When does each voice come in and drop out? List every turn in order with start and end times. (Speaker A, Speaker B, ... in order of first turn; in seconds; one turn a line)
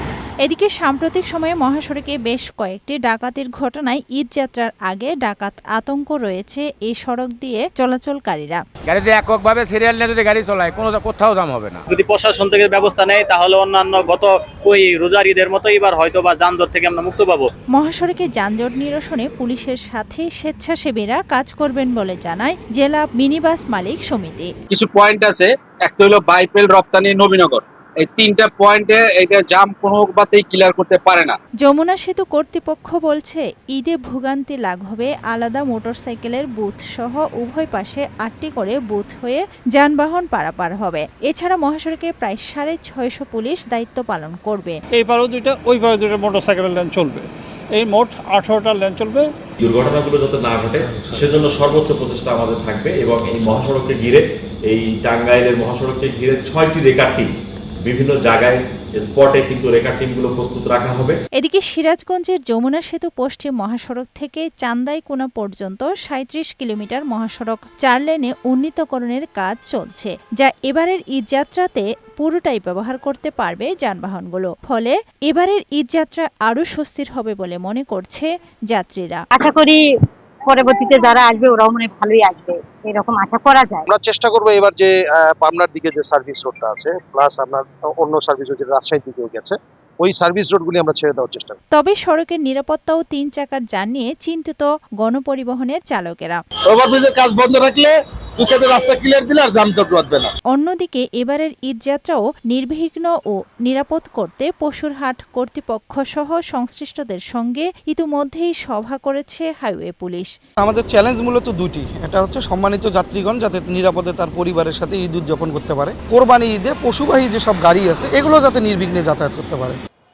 Speaker A: 0.4-8.6
Speaker B: 8.9-11.8
Speaker C: 11.9-17.5
Speaker A: 17.7-24.5
Speaker D: 24.7-31.4
Speaker A: 31.6-44.8
Speaker E: 45.0-49.3
Speaker F: 49.6-57.3
Speaker F: 57.8-61.2
Speaker A: 61.4-79.2
Speaker G: 79.3-79.8
Speaker G: 80.5-83.8
Speaker H: 83.9-91.5
Speaker A: 91.8-96.4
Speaker I: 96.7-100.3
Speaker A: 100.5-110.3
Speaker J: 110.6-119.8